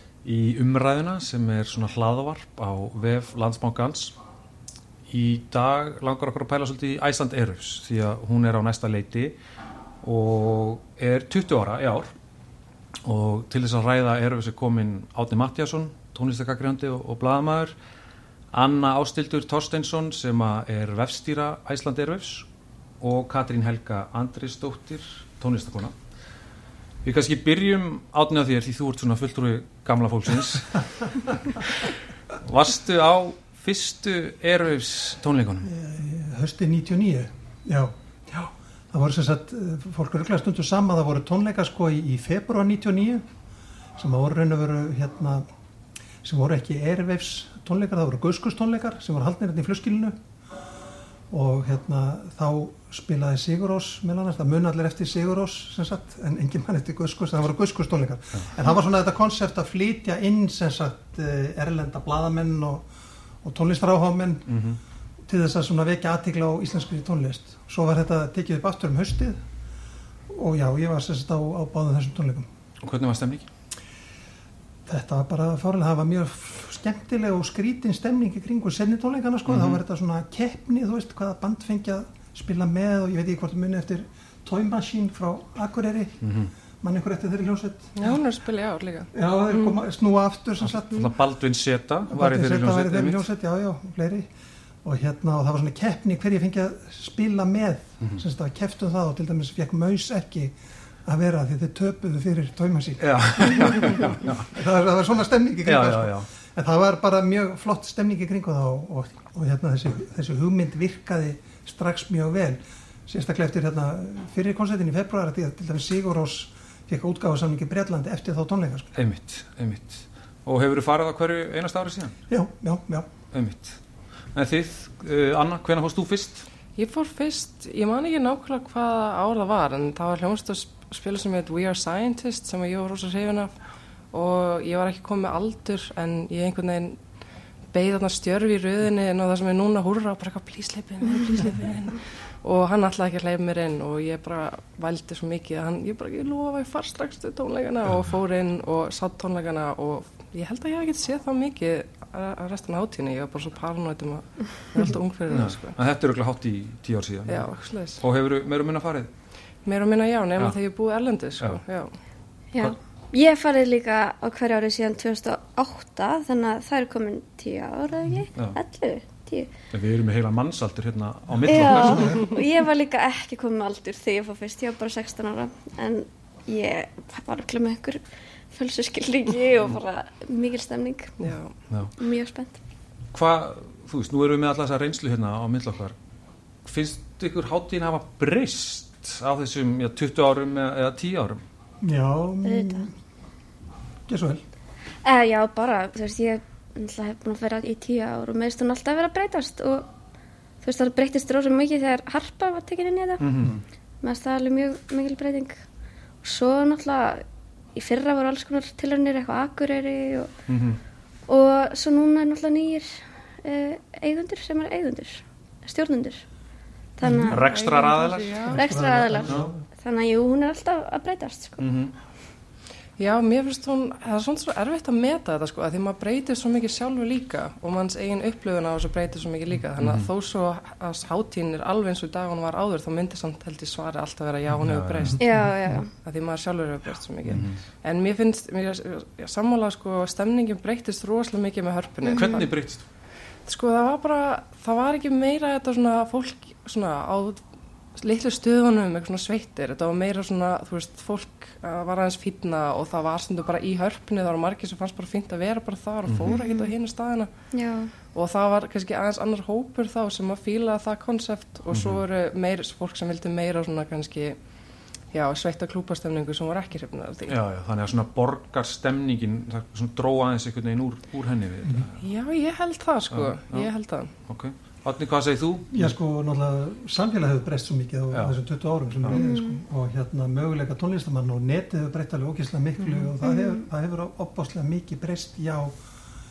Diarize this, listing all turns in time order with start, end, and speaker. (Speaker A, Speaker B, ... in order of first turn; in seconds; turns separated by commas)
Speaker A: 0.2-4.2, Speaker A: 5.1-9.3, Speaker A: 10.0-12.1, Speaker A: 13.0-17.8, Speaker A: 18.5-22.5, Speaker A: 23.0-25.9, Speaker A: 27.0-35.7, Speaker B: 35.6-43.2, Speaker B: 44.0-45.5, Speaker B: 46.2-50.2, Speaker B: 51.3-62.9, Speaker B: 63.4-64.5, Speaker A: 64.5-64.8, Speaker B: 65.2-69.4, Speaker B: 70.3-72.5, Speaker A: 72.8-73.5, Speaker B: 74.9-86.2, Speaker A: 79.5-79.8, Speaker A: 86.2-86.5, Speaker B: 86.8-88.2, Speaker C: 88.0-89.8, Speaker B: 89.1-91.1, Speaker A: 90.6-93.2, Speaker B: 92.1-94.3, Speaker B: 94.8-118.9, Speaker A: 103.0-104.5, Speaker A: 105.7-106.3, Speaker A: 118.9-122.1, Speaker B: 122.3-123.1, Speaker A: 123.3-123.8, Speaker A: 124.3-126.5, Speaker C: 126.8-133.6, Speaker C: 134.1-137.0, Speaker C: 137.7-155.8, Speaker A: 155.3-159.1, Speaker C: 157.3-158.0, Speaker C: 159.6-161.9, Speaker D: 162.5-169.5, Speaker A: 169.7-172.2, Speaker B: 171.3-172.3, Speaker D: 171.4-181.1, Speaker C: 181.2-181.5, Speaker D: 182.0-182.6, Speaker A: 183.1-185.9, Speaker A: 186.6-191.4, Speaker B: 191.8-192.9, Speaker D: 192.4-192.9, Speaker B: 194.1-194.4, Speaker D: 195.0-199.9, Speaker D: 200.6-203.2, Speaker A: 203.2-203.6, Speaker D: 204.0-205.6, Speaker D: 206.2-207.2, Speaker D: 207.7-210.3, Speaker A: 210.5-210.8, Speaker D: 211.3-216.2, Speaker D: 217.0-217.4, Speaker B: 217.0-217.4, Speaker C: 217.2-218.7, Speaker A: 217.2-219.5, Speaker B: 218.5-219.6, Speaker D: 218.6-221.6, Speaker A: 221.6-221.9, Speaker C: 223.0-235.2, Speaker A: 229.8-230.1, Speaker A: 234.6-235.2, Speaker D: 235.2-235.9, Speaker B: 235.2-235.8, Speaker C: 235.9-242.5, Speaker A: 237.3-237.6, Speaker D: 242.0-242.4, Speaker A: 242.1-242.8, Speaker C: 243.5-247.4, Speaker C: 247.9-257.3, Speaker A: 256.1-256.4, Speaker D: 257.5-257.9, Speaker C: 258.1-264.4, Speaker A: 261.7-262.0, Speaker C: 265.1-267.4, Speaker A: 267.3-272.0, Speaker C: 272.0-274.1, Speaker A: 273.1-273.7, Speaker A: 274.2-275.9, Speaker B: 275.7-285.8, Speaker D: 279.1-279.6, Speaker C: 282.8-283.1, Speaker D: 283.2-283.6